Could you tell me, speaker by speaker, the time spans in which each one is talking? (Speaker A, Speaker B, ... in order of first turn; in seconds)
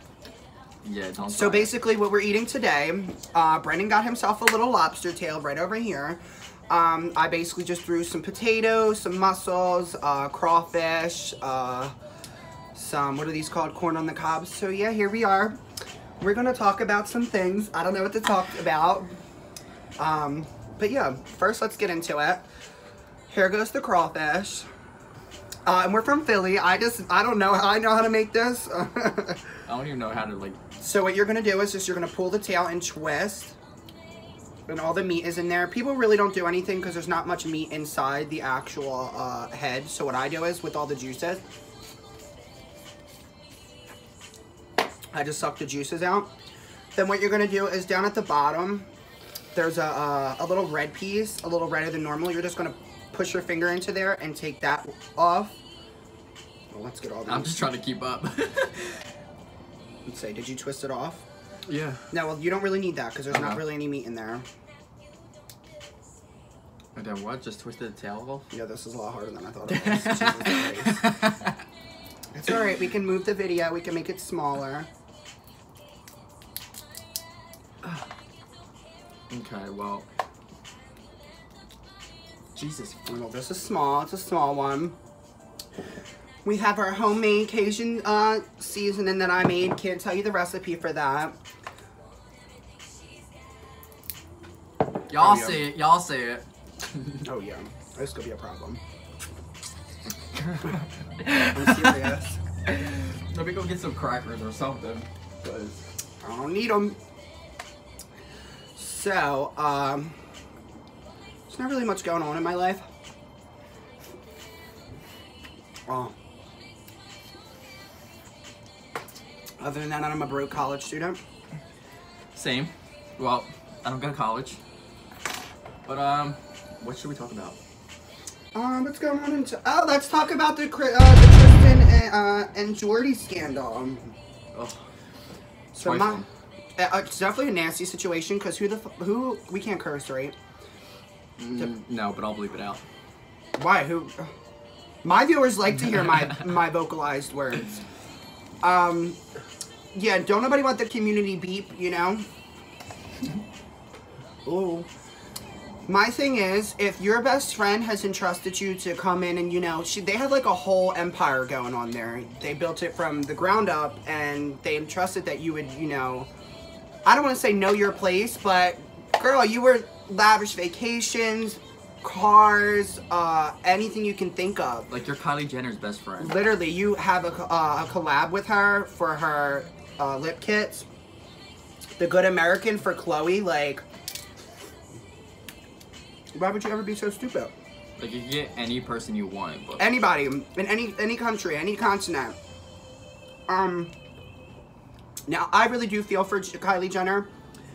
Speaker A: 0.8-1.7, 29.6-30.6, 57.2-59.0, 61.7-62.0, 63.3-63.6, 66.9-68.5, 69.7-71.5, 79.3-80.0, 82.5-83.0, 95.1-96.4, 101.2-101.9, 102.7-105.1, 122.3-124.6, 125.8-127.6, 134.5-134.8, 135.8-136.2, 141.4-142.8, 174.9-176.4, 188.0-189.9
Speaker B: 1.3-11.9, 12.7-15.6, 16.2-19.1, 20.0-22.4, 23.3-24.7, 25.6-29.4, 30.8-33.5, 34.7-41.4, 45.1-46.3, 46.9-48.9, 49.5-55.6, 56.7-57.6, 60.0-61.2, 62.1-64.4, 68.5-71.0, 72.3-74.9, 83.0-85.0, 86.4-91.4, 95.1-95.6, 97.2-98.8, 101.4-102.4, 105.4-107.0, 108.7-110.2, 111.5-112.9, 115.9-116.1, 119.6-121.2, 128.5-134.1, 135.7-136.2, 136.8-140.3, 143.6-144.3, 145.0-147.8, 148.6-149.2, 149.9-152.2, 154.4-154.9, 155.8-166.3, 167.0-174.9, 176.2-180.9, 182.0-183.8, 186.3-187.5, 189.8-192.4, 193.5-193.9, 195.3-197.3